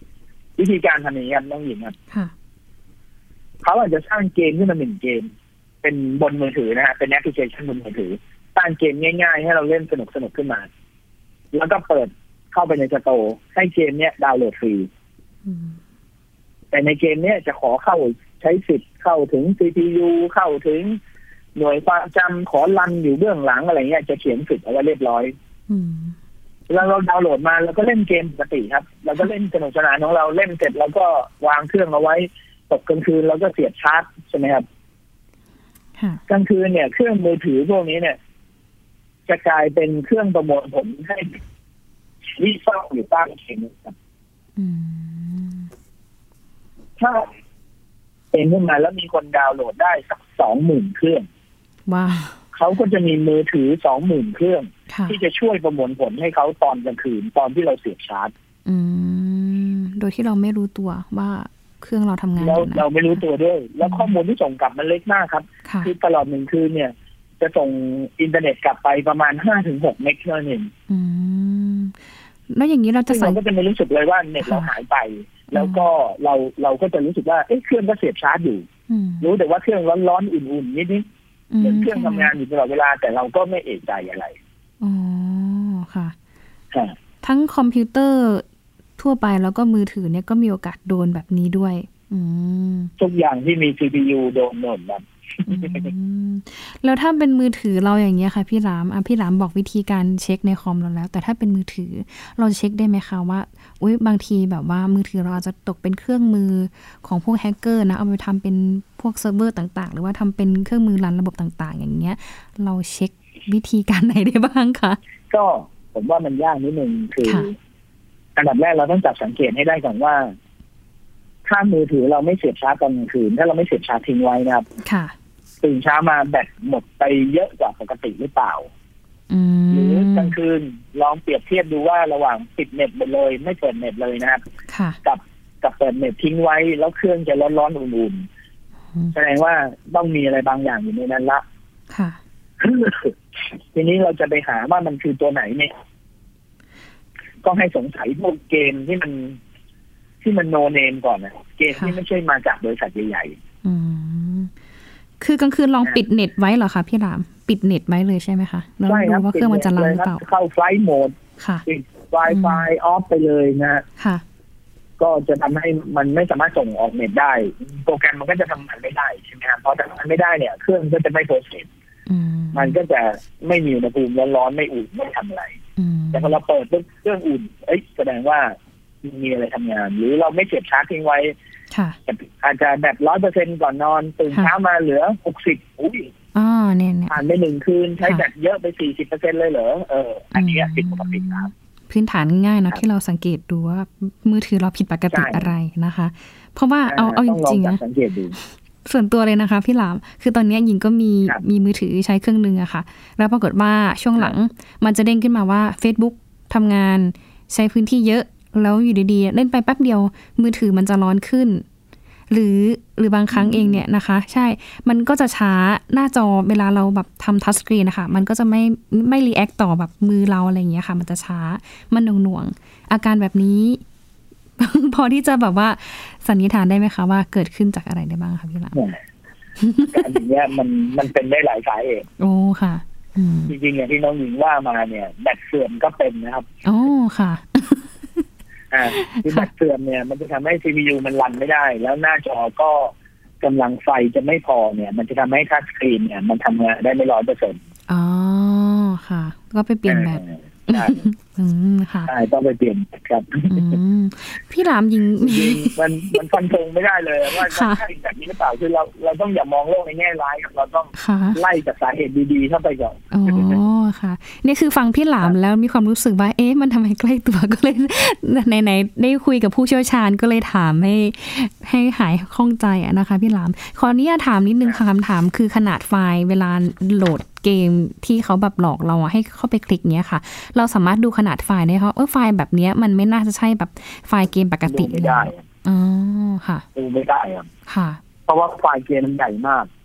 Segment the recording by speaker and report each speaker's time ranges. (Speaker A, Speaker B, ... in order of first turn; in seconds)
Speaker A: 0.6-1.9, 3.6-5.3, 5.8-10.7, 11.5-14.9, 16.7-21.0, 21.6-25.3, 26.7-34.6, 36.3-38.2, 39.3-41.4, 42.4-43.9, 47.0-47.3, 48.3-51.3, 52.5-58.3, 62.4-70.7, 73.1-78.7, 79.2-81.0, 81.6-84.4, 93.0-95.9, 115.3-117.5, 118.3-120.3, 121.5-124.7, 125.6-128.7, 129.7-134.4, 135.0-138.3, 139.1-141.4, 142.6-143.1, 143.7-145.7, 147.4-149.4, 150.2-153.4, 158.8-161.1, 161.7-163.8, 165.0-171.7, 172.5-175.6, 176.1-181.3, 182.1-186.1, 187.1-191.5, 195.1-195.5, 196.8-198.3, 213.3-213.8, 228.7-229.0, 229.8-232.1, 233.5-236.5, 238.7-247.6, 249.9-251.0, 252.1-253.8, 255.2-263.6, 284.7-285.4, 286.7-287.5, 288.3-289.7
Speaker B: 15.4-15.8, 25.7-26.1, 36.0-36.2, 44.5-45.7, 51.9-52.4, 54.9-55.2, 58.6-62.8, 63.8-64.1, 65.6-65.9, 70.9-72.0, 72.5-73.4, 74.4-74.7, 75.5-75.9, 78.9-79.3, 81.5-82.3, 84.8-86.1, 87.2-88.4, 89.0-92.9, 95.5-115.0, 124.8-125.1, 129.3-130.3, 134.7-135.0, 141.9-142.2, 153.6-154.5, 155.2-160.2, 161.4-161.7, 162.3-162.7, 164.0-164.2, 172.1-172.8, 175.8-176.4, 181.7-182.0, 186.3-187.2, 190.3-197.8, 198.8-211.6, 212.3-223.8, 224.6-228.8, 229.6-230.2, 232.2-233.5, 236.6-238.2, 238.9-239.5, 247.9-252.1, 253.5-256.2, 257.3-257.8, 260.9-261.4, 263.1-286.6, 287.7-288.0